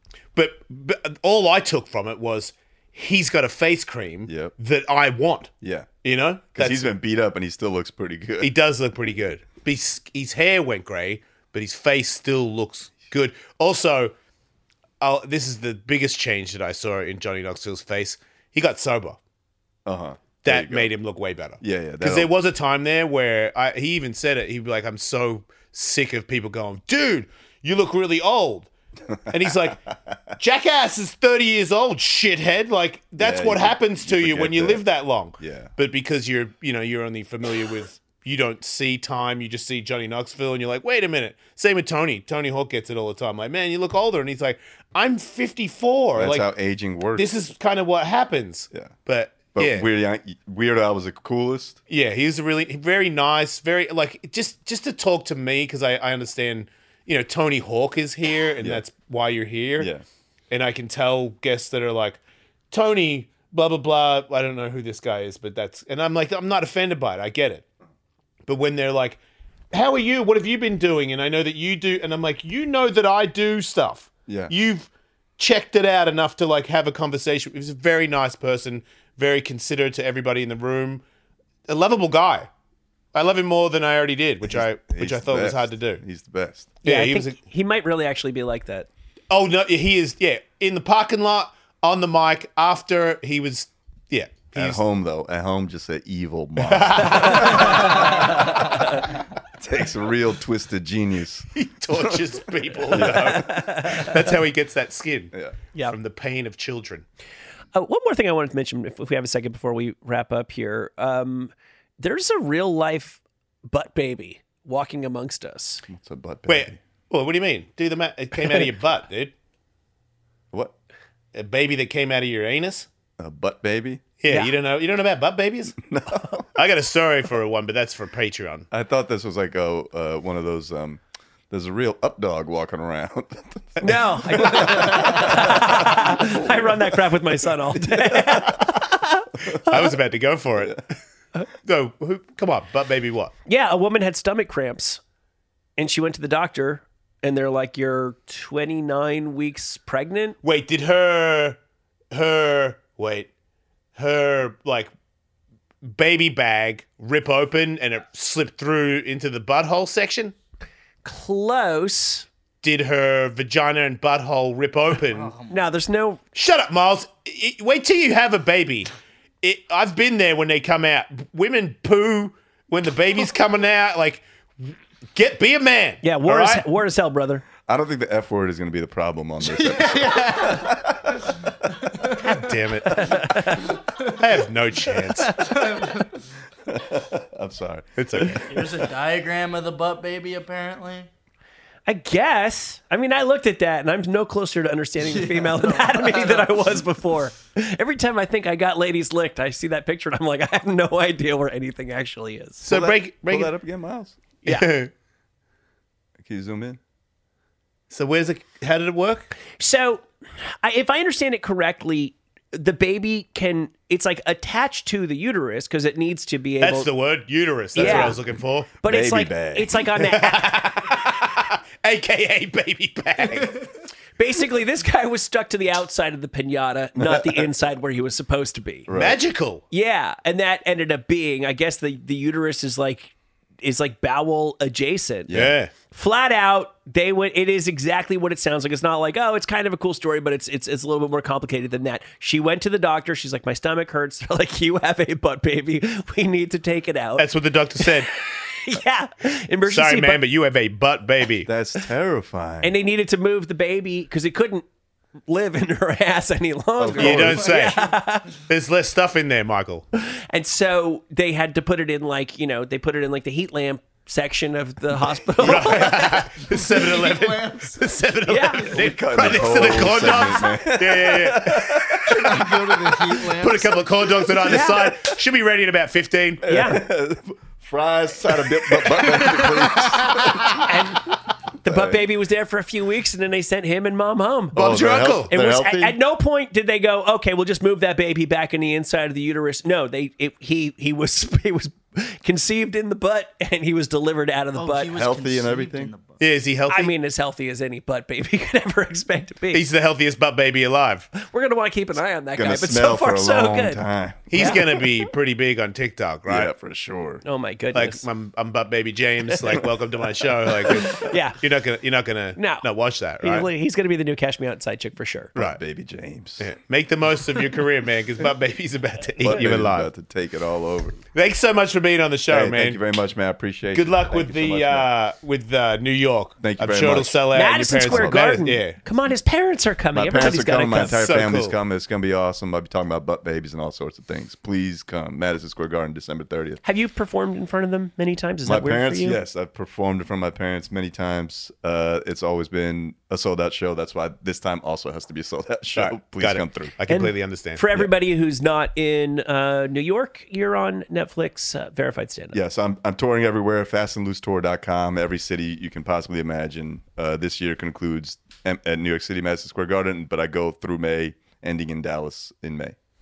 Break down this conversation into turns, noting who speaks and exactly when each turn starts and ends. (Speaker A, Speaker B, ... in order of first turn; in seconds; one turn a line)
Speaker A: 0.3-5.5
Speaker B: 4.3-4.5
Speaker B: 5.6-5.9
Speaker A: 6.0-6.9
Speaker B: 6.5-8.6
Speaker A: 8.4-14.1
Speaker A: 15.0-19.2
Speaker B: 19.9-20.9
Speaker A: 20.4-28.7
Speaker B: 21.6-22.3
Speaker A: 29.3-29.8
Speaker B: 29.9-30.2
Speaker A: 30.4-46.5
Speaker B: 33.2-34.9
Speaker B: 35.4-35.7
Speaker B: 46.2-47.3
Speaker A: 47.1-49.9
Speaker B: 49.5-51.8
Speaker A: 51.9-59.9
Speaker B: 59.8-60.0
Speaker A: 60.5-62.2
Speaker A: 62.7-67.7
Speaker A: 68.5-69.2
Speaker A: 69.7-81.0
Speaker B: 74.3-74.5
Speaker A: 81.7-82.5
Speaker A: 83.1-86.0
Speaker B: 84.5-86.7
Speaker A: 86.8-87.4
Speaker C: 86.8-88.9
Speaker A: 89.3-94.8
Speaker B: 94.5-98.8
Speaker A: 96.7-98.0
Speaker C: 97.1-99.0
Speaker B: 99.5-102.2
Speaker A: 101.5-107.0
Speaker B: 102.9-103.6
Speaker C: 103.0-104.2
Speaker C: 107.8-115.8
Speaker B: 115.9-116.8
Speaker A: 116.5-119.3
Speaker A: 121.3-122.9
Speaker B: 123.2-124.0
Speaker A: 124.2-125.8
Speaker B: 125.8-126.5
Speaker A: 126.5-128.7
Speaker B: 128.7-137.1
Speaker C: 133.8-139.8
Speaker B: 137.7-138.8
Speaker A: 139.7-140.9
Speaker A: 141.6-143.3
Speaker C: 143.5-145.0
Speaker C: 145.8-150.4
Speaker A: 150.4-151.6
Speaker A: 152.1-153.3
Speaker A: 154.0-154.9
Speaker A: 155.8-160.3
Speaker C: 161.0-162.3
Speaker A: 162.6-165.3
Speaker D: 165.1-165.7
Speaker C: 165.5-166.2
Speaker A: 166.3-168.9
Speaker A: 169.4-176.7
Speaker C: 176.0-177.5
Speaker B: 177.7-182.1
Speaker D: 179.4-180.9
Speaker D: 181.7-182.4
Speaker A: 182.2-183.2
Speaker C: 183.0-183.7
Speaker D: 183.7-184.2
Speaker A: 184.1-185.4
Speaker D: 185.0-186.2
Speaker B: 186.7-188.4
Speaker A: 188.0-188.5
Speaker D: 188.4-191.1
Speaker C: 191.9-202.7
Speaker D: 195.0-196.8
Speaker A: 202.6-203.5
Speaker B: 202.7-204.2
Speaker A: 204.4-204.9
Speaker B: 206.2-206.8
Speaker A: 207.9-209.3
Speaker C: 209.6-216.9
Speaker A: 216.6-218.7
Speaker C: 217.8-218.2
Speaker B: 217.8-218.3
Speaker B: 218.8-219.8
Speaker C: 218.8-220.6
Speaker A: 220.0-223.7
Speaker C: 224.2-228.9
Speaker B: 227.0-227.5
Speaker B: 228.9-229.2
Speaker A: 228.9-229.6
Speaker C: 229.7-247.3
Speaker B: 235.3-235.6
Speaker A: 235.3-235.7
Speaker A: 247.2-248.1
Speaker C: 247.8-250.2
Speaker A: 249.7-251.5
Speaker B: 251.4-252.7
Speaker C: 252.6-254.6
Speaker C: 255.3-258.3
Speaker B: 256.8-257.6
Speaker A: 257.0-257.8
Speaker D: 257.4-257.9
Speaker A: 258.4-259.9
Speaker C: 260.1-266.2
Speaker A: 265.4-272.0
Speaker D: 266.4-267.8
Speaker C: 268.3-268.8
Speaker B: 268.6-273.4
Speaker D: 272.1-274.4
Speaker A: 273.4-276.4
Speaker C: 274.4-275.0
Speaker B: 276.4-280.7
Speaker C: 276.5-276.8
Speaker D: 279.0-280.6
Speaker C: 280.6-284.6
Speaker B: 281.6-282.1
Speaker B: 284.5-286.0
Speaker A: 284.6-285.3
Speaker C: 285.3-294.9
Speaker D: 294.6-296.2
Speaker B: 294.9-295.9
Speaker A: 296.2-296.9
Speaker C: 296.7-299.7
Speaker A: 299.5-301.1
Speaker C: 301.2-303.8
Speaker B: 302.3-304.8
Speaker A: 304.3-306.5
Speaker C: 304.3-304.8
Speaker B: 306.3-307.2
Speaker C: 307.2-308.1
Speaker A: 307.7-313.5
Speaker C: 310.7-311.4
Speaker C: 312.4-312.7
Speaker C: 313.2-315.3
Speaker B: 315.4-316.4
Speaker A: 316.4-319.9
Speaker B: 319.2-321.0
Speaker A: 321.1-322.8
Speaker B: 322.3-324.9
Speaker A: 323.7-328.8
Speaker B: 326.4-328.3
Speaker C: 327.3-331.0
Speaker B: 329.9-336.6
Speaker A: 330.7-331.6
Speaker C: 336.6-339.2
Speaker B: 338.4-346.7
Speaker A: 345.7-347.6
Speaker C: 346.9-352.4
Speaker B: 352.3-362.8